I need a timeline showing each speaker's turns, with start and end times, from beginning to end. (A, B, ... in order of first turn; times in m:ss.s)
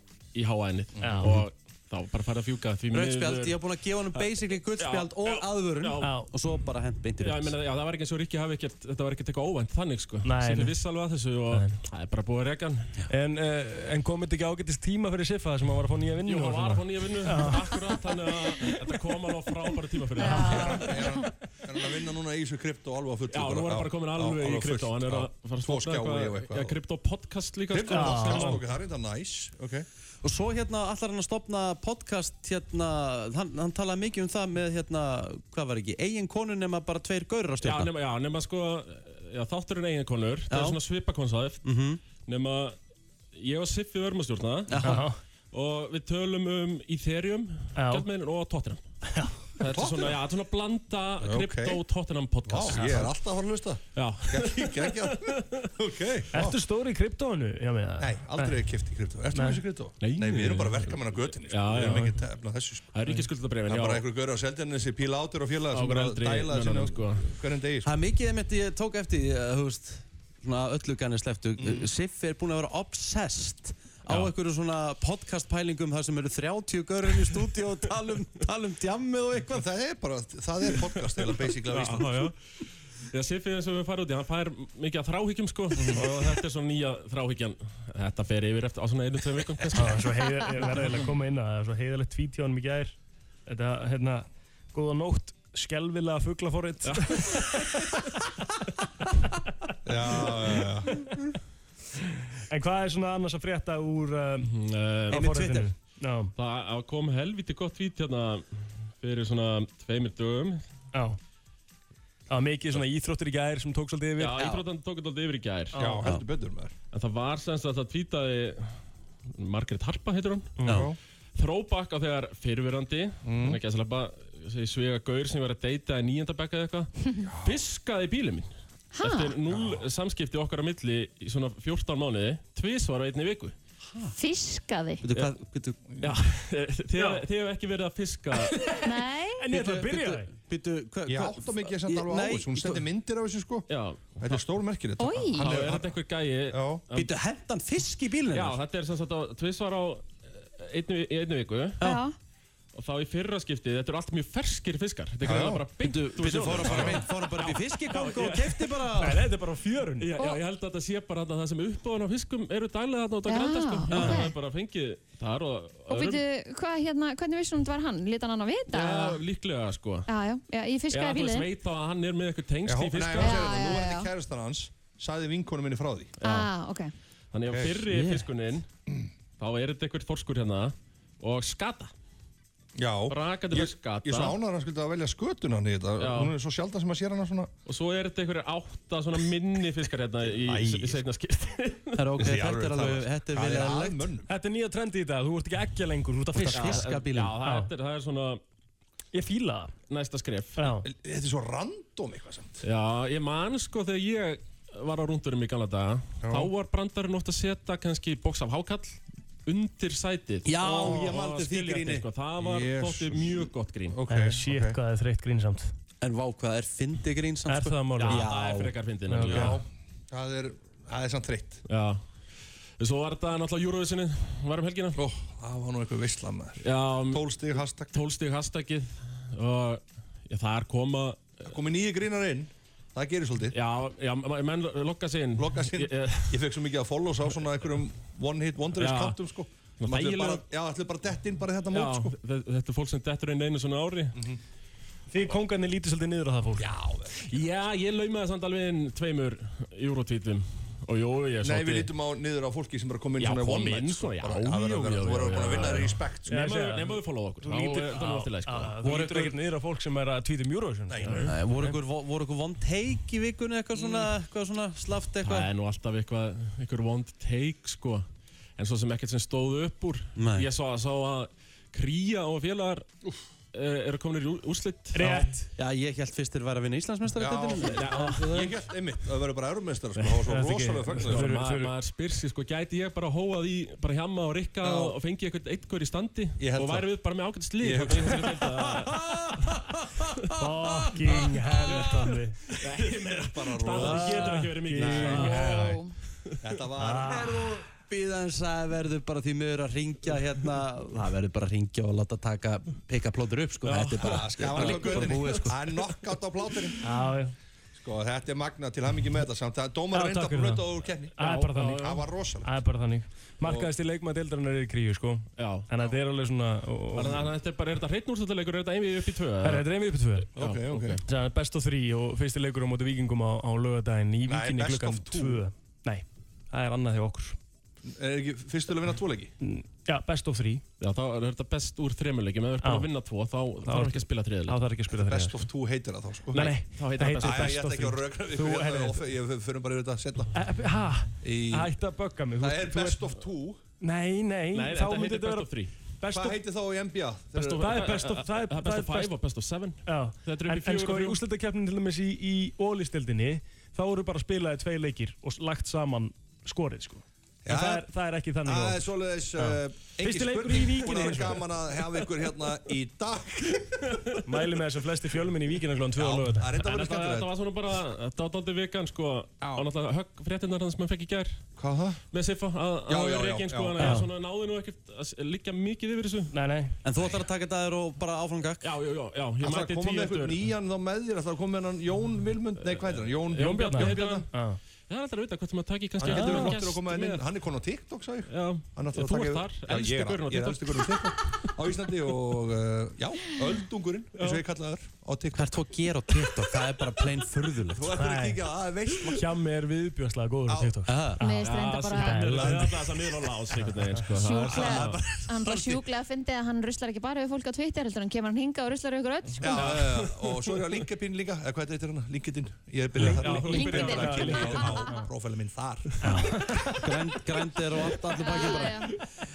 0:00.3-0:03.6 A
0:01.0-0:01.3 B
0:01.0-0:01.4 C
0:02.9-0:07.6 D
0:04.8-0:06.2 A
0:06.0-0:06.3 C
0:07.2-0:13.0 A
0:10.2-0:10.8 C
0:11.5-0:11.8 C
0:13.1-0:18.8 C
0:16.2-0:21.0 A
0:20.2-0:20.9 C
0:20.2-0:20.9 E
0:20.5-0:26.8 B
0:23.3-0:28.6 A
0:27.7-0:29.9 B
0:27.9-0:28.6 C
0:30.2-0:37.9 D
0:37.6-0:41.6 A
0:40.5-0:40.8 D
0:41.6-0:42.0 D
0:42.2-0:42.8 A
0:43.3-0:44.8 A
0:44.7-0:45.1 D
0:44.8-0:45.2 C
0:45.5-0:48.8 A
0:47.8-0:48.1 C
0:49.1-0:49.6 C
0:49.6-0:53.1 A
0:49.7-0:50.2 B
0:51.2-0:51.8 B
0:52.4-0:56.6 B
0:53.9-0:55.7 A
0:56.3-0:58.6 C
0:58.0-1:02.9 B
0:59.3-0:59.6 C
1:00.0-1:02.2 A
1:02.9-1:04.0 A
1:03.7-1:07.9 B
1:05.7-1:07.3 A
1:07.8-1:19.7 D
1:11.6-1:11.9 B
1:19.5-1:22.3 B
1:21.7-1:22.4 A
1:23.1-1:30.1 A
1:25.8-1:26.1 B
1:29.7-1:33.0 C
1:30.6-1:30.9 A
1:33.5-1:37.9 C
1:36.8-1:37.9 A
1:39.8-1:41.0 B
1:42.5-1:44.5 C
1:44.4-1:45.2 A
1:45.1-1:46.3 C
1:45.1-1:45.7 D
1:46.4-1:50.6 A
1:50.9-1:51.2 C
1:52.3-1:54.5 C
1:54.2-1:55.9 A
1:54.3-1:54.6 D
1:55.7-1:56.1 C
1:55.7-1:56.8 B
1:56.9-1:58.8 A
1:59.4-2:00.6 A
2:00.6-2:00.8 C
2:00.7-2:01.0 B
2:01.4-2:06.9 A
2:03.2-2:03.6 B
2:07.2-2:07.6 B
2:07.4-2:08.5 A
2:09.0-2:09.4 E
2:09.0-2:13.6 A
2:09.5-2:09.8 B
2:14.2-2:15.1 E
2:15.0-2:15.8 D
2:16.0-2:18.5 A
2:17.0-2:17.2 C
2:18.8-2:19.4 E
2:19.4-2:20.3 C
2:19.5-2:22.9 D
2:21.1-2:23.7 B
2:23.7-2:24.5 A
2:24.2-2:26.0 B
2:25.0-2:25.5 E
2:25.4-2:27.0 A
2:26.5-2:26.8 B
2:26.9-2:28.6 D
2:28.3-2:31.8 A
2:31.8-2:32.2 E
2:32.7-2:38.5 A
2:35.2-2:35.7 B
2:35.8-2:39.3 D
2:36.4-2:37.0 B
2:37.9-2:40.2 C
2:40.0-2:46.2 A
2:43.3-2:44.3 E
2:43.9-2:44.2 D
2:45.9-2:49.2 E
2:48.7-2:50.1 A
2:50.1-2:51.5 E
2:50.9-2:53.5 A
2:52.7-2:56.1 B
2:53.2-2:54.1 E
2:56.2-2:56.9 E
2:56.2-2:56.5 A
2:57.3-2:58.7 A
2:57.5-2:57.9 B
2:59.4-3:01.9 A
3:02.8-3:07.5 B
3:03.1-3:04.4 A
3:06.0-3:06.4 A
3:07.6-3:12.1 A
3:10.5-3:10.8 B
3:12.0-3:14.1 D
3:12.2-3:14.3 B
3:14.3-3:17.7 C
3:16.4-3:17.4 D
3:16.5-3:18.4 A
3:19.1-3:19.7 C
3:19.9-3:20.7 A
3:20.6-3:20.9 C
3:20.8-3:22.6 B
3:22.6-3:34.0 A
3:26.2-3:26.5 B
3:30.4-3:32.1 D
3:30.8-3:31.2 B
3:32.4-3:33.4 B
3:33.9-3:34.8 B
3:34.1-3:35.7 C
3:36.0-3:38.7 D
3:37.5-3:38.3 C
3:38.0-3:39.6 A
3:39.1-3:39.6 C
3:39.3-3:41.6 B
3:41.7-3:42.0 A
3:42.8-3:45.0 A
3:45.0-3:48.0 B
3:46.6-3:51.4 A
3:51.5-3:53.6 B
3:53.5-3:56.4 A
3:55.4-4:02.2 B
3:58.7-3:59.2 A
3:59.8-4:00.5 A
4:01.7-4:04.2 A
4:05.1-4:06.7 C
4:06.6-4:07.3 B
4:07.3-4:11.9 A
4:11.4-4:16.5 B
4:13.2-4:19.2 A
4:16.3-4:21.8 C
4:18.9-4:19.3 D
4:20.9-4:21.3 B
4:21.2-4:25.5 D
4:25.2-4:28.0 A
4:28.6-4:32.9 A
4:30.2-4:30.5 D
4:33.5-4:35.3 A
4:34.9-4:35.5 C
4:35.6-4:37.9 D
4:37.2-4:41.3 B
4:37.6-4:38.5 A
4:38.0-4:38.2 C
4:40.0-4:41.8 C
4:41.1-4:49.3 A
4:44.6-4:45.0 B
4:46.4-4:46.9 B
4:47.6-4:48.6 B
4:50.4-4:52.5 C
4:52.6-4:55.6 A
4:53.2-4:55.8 B
4:53.7-4:55.6 C
4:55.2-4:55.9 E
4:56.4-4:57.6 B
4:56.8-4:57.4 C
4:57.8-5:05.6 D
5:03.7-5:05.5 A
5:04.0-5:06.8 B
5:06.8-5:07.3 C
5:07.8-5:12.5 B
5:09.9-5:17.2 C
5:11.2-5:11.9 A
5:13.4-5:13.7 B
5:15.4-5:15.7 A
5:17.0-5:19.6 A
5:17.0-5:17.3 B
5:19.4-5:20.4 C
5:20.4-5:21.0 B
5:20.4-5:21.0 A
5:21.1-5:27.4 C
5:24.3-5:25.4 B
5:27.9-5:29.3 B
5:29.4-5:30.6 C
5:30.8-5:34.6 A
5:32.6-5:32.9 C
5:33.6-5:35.5 C
5:34.9-5:36.6 B
5:36.3-5:37.6 A
5:36.4-5:39.0 C
5:37.2-5:40.3 B
5:40.3-5:43.1 C
5:41.2-5:41.7 B
5:42.4-5:43.6 B
5:43.8-5:46.4 C
5:44.5-5:45.7 A
5:46.1-5:47.6 B
5:47.4-5:49.1 C
5:47.4-5:51.2 A
5:49.9-6:02.1 C
5:57.4-5:57.9 B
5:58.4-6:03.7 B
6:03.9-6:04.2 A
6:04.3-6:06.6 C
6:06.0-6:07.3 B
6:06.6-6:11.4 A
6:09.4-6:09.7 B
6:11.6-6:12.0 B
6:12.1-6:16.3 A
6:12.9-6:14.0 B
6:13.8-6:14.1 C
6:16.3-6:16.8 C
6:16.8-6:18.6 D
6:18.6-6:20.5 A
6:19.4-6:24.3 B
6:22.6-6:24.3 A
6:23.7-6:24.6 C
6:24.9-6:27.3 A
6:26.0-6:26.6 C
6:26.0-6:35.6 B
6:28.3-6:31.0 A
6:35.3-6:38.0 D
6:37.7-6:39.3 B
6:38.0-6:38.4 C
6:39.0-6:43.0 C
6:40.5-6:40.8 B
6:40.9-6:41.2 D
6:41.2-6:42.4 E
6:41.4-6:45.0 A
6:42.4-6:43.3 B
6:44.2-6:49.7 E
6:44.5-6:45.8 B
6:49.4-6:56.1 B
6:49.5-6:50.6 A
6:53.0-6:55.1 C
6:53.0-6:54.8 A
6:53.5-6:55.0 E
6:56.0-6:56.9 C
6:56.8-6:58.9 D
6:58.2-6:58.9 E